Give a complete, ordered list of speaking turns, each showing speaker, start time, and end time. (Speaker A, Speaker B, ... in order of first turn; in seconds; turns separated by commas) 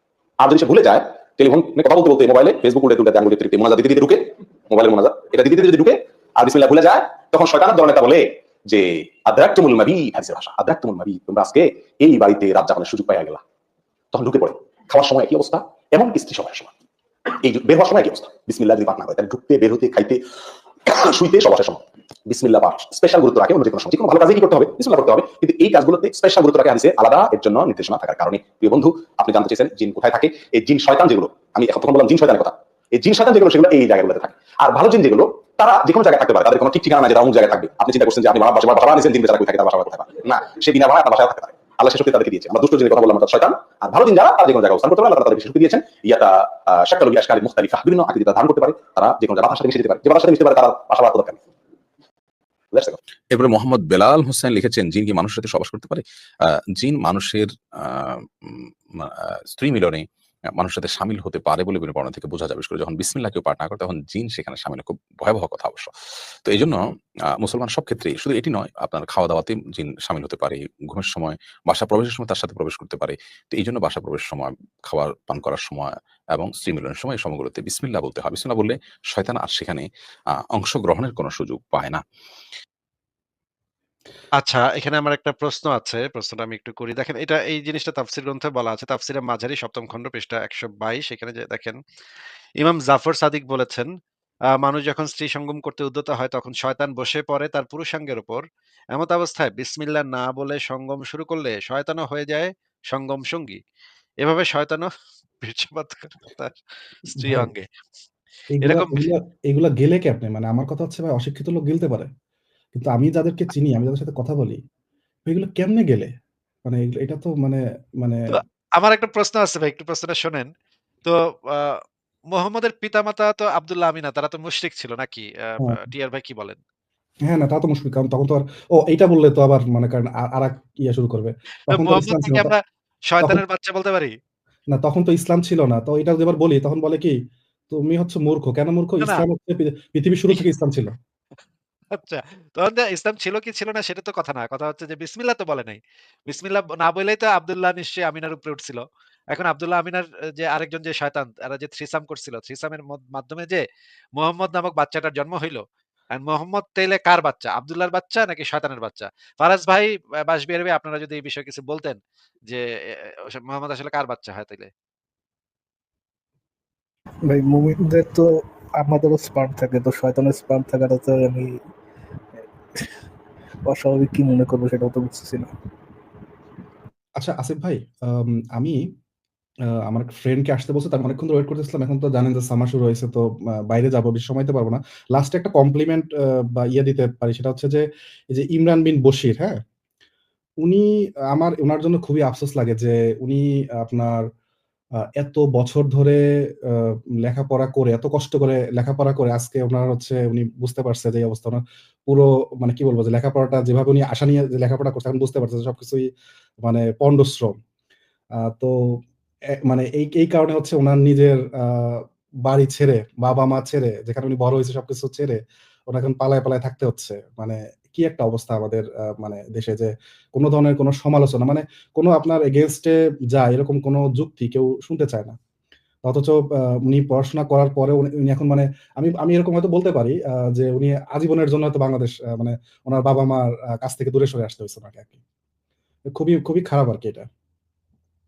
Speaker A: 0.4-13.4, Speaker A: 14.1-16.7, Speaker A: 17.4-20.2, Speaker A: 20.9-51.4, Speaker A: 52.7-53.0, Speaker B: 53.3-60.0, Speaker B: 60.6-65.9, Speaker B: 66.4-66.8, Speaker B: 67.4-82.0, Speaker C: 84.4-91.8, Speaker C: 92.6-93.9, Speaker C: 94.6-98.4, Speaker C: 98.9-103.6, Speaker C: 104.2-104.9, Speaker C: 105.4-106.6, Speaker D: 107.1-107.5, Speaker C: 107.2-107.7, Speaker D: 108.5-112.1, Speaker C: 108.6-109.1, Speaker D: 112.7-114.6, Speaker D: 115.3-116.1, Speaker D: 116.6-118.2, Speaker C: 118.3-120.5, Speaker C: 121.0-121.8, Speaker C: 122.3-126.6, Speaker D: 127.3-132.5, Speaker C: 131.7-134.1, Speaker D: 134.7-137.2, Speaker D: 137.7-140.9, Speaker C: 141.9-153.6, Speaker C: 154.2-155.6, Speaker C: 156.1-164.7, Speaker E: 167.2-171.7, Speaker E: 172.3-173.0, Speaker E: 173.7-175.5, Speaker D: 177.2-178.8, Speaker D: 179.9-189.6, Speaker D: 190.6-194.2, Speaker D: 195.2-206.0, Speaker D: 206.6-207.5, Speaker D: 208.4-208.7, Speaker D: 209.7-225.3, Speaker D: 226.0-235.2, Speaker D: 236.1-237.3